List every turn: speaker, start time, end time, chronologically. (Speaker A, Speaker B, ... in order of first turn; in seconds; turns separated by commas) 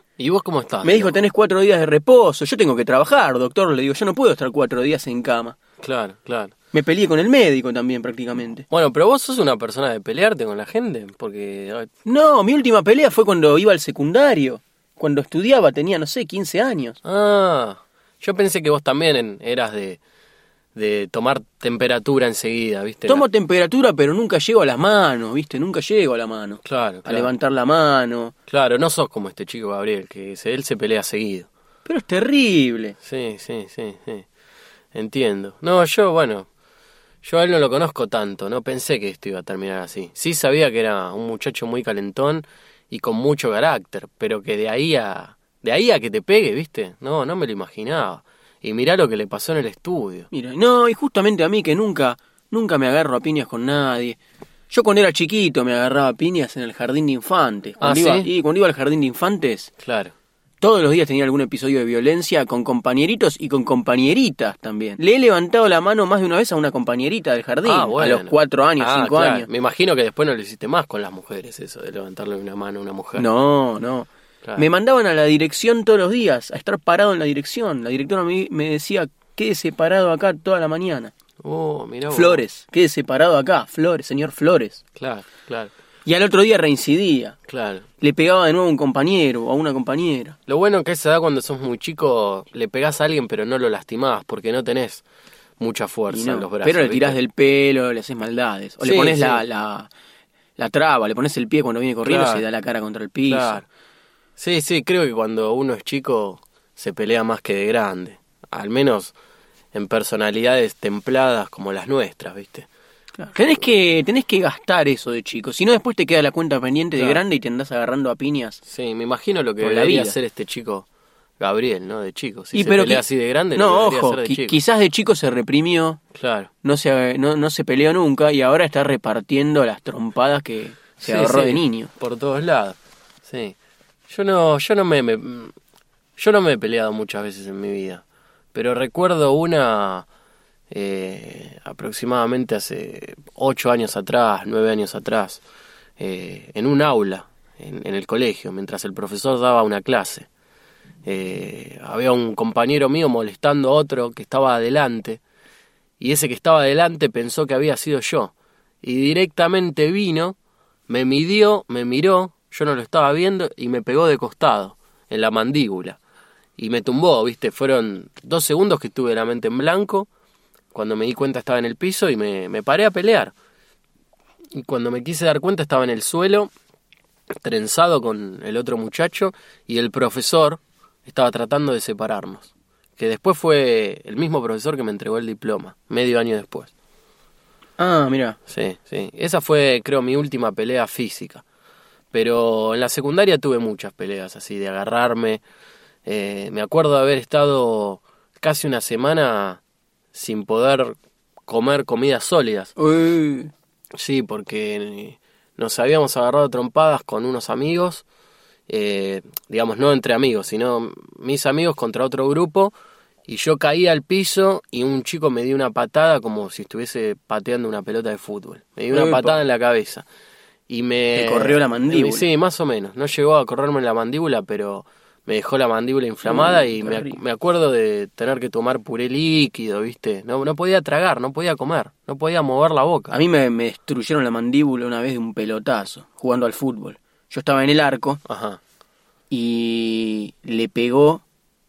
Speaker A: 0.2-1.2, Speaker B: 0.8-5.6, Speaker A: 5.8-6.5, Speaker B: 6.7-8.7, Speaker A: 8.7-11.9, Speaker B: 12.1-17.0, Speaker A: 17.0-20.0, Speaker A: 20.8-23.2, Speaker B: 23.1-28.3, Speaker A: 26.6-27.3, Speaker A: 28.5-31.5, Speaker B: 31.9-33.0, Speaker A: 33.0-34.3, Speaker A: 34.9-36.5, Speaker A: 37.2-50.3, Speaker B: 50.3-54.2, Speaker B: 54.7-59.7, Speaker A: 57.8-58.3, Speaker A: 59.8-60.1, Speaker B: 60.6-69.5, Speaker A: 67.6-73.3, Speaker B: 73.2-81.1, Speaker A: 81.4-82.4, Speaker B: 82.1-84.8, Speaker A: 85.0-85.7, Speaker B: 86.0-87.4, Speaker A: 87.5-87.8, Speaker B: 88.0-90.4, Speaker A: 90.5-95.0, Speaker A: 95.6-97.2, Speaker B: 96.1-99.9, Speaker A: 98.8-99.4, Speaker B: 100.6-103.6, Speaker A: 102.0-102.5, Speaker A: 103.3-103.7, Speaker A: 104.4-109.1, Speaker A: 109.7-112.7, Speaker B: 113.2-118.6, Speaker A: 117.0-117.2, Speaker A: 118.7-120.8, Speaker B: 119.6-120.2, Speaker A: 121.4-124.6, Speaker B: 122.5-126.0, Speaker A: 126.2-126.5, Speaker B: 126.6-131.9, Speaker A: 131.0-133.6, Speaker A: 134.1-135.5, Speaker A: 136.2-138.0, Speaker A: 138.5-140.1, Speaker A: 140.7-145.4, Speaker A: 146.0-150.3, Speaker A: 151.1-155.2, Speaker A: 156.0-160.4, Speaker A: 160.9-166.0, Speaker A: 166.6-170.1, Speaker A: 170.7-173.3, Speaker A: 174.5-176.5, Speaker A: 177.4-186.7, Speaker B: 187.8-188.4, Speaker A: 188.5-191.4, Speaker A: 192.1-195.4, Speaker A: 196.1-199.6, Speaker A: 200.1-202.7, Speaker B: 202.8-203.5, Speaker A: 203.9-208.0, Speaker A: 208.7-212.7, Speaker A: 213.3-220.1, Speaker B: 218.9-219.4, Speaker A: 220.7-233.2, Speaker B: 221.2-222.3, Speaker B: 226.3-227.2, Speaker B: 233.1-238.2, Speaker A: 238.3-238.6, Speaker B: 239.3-241.2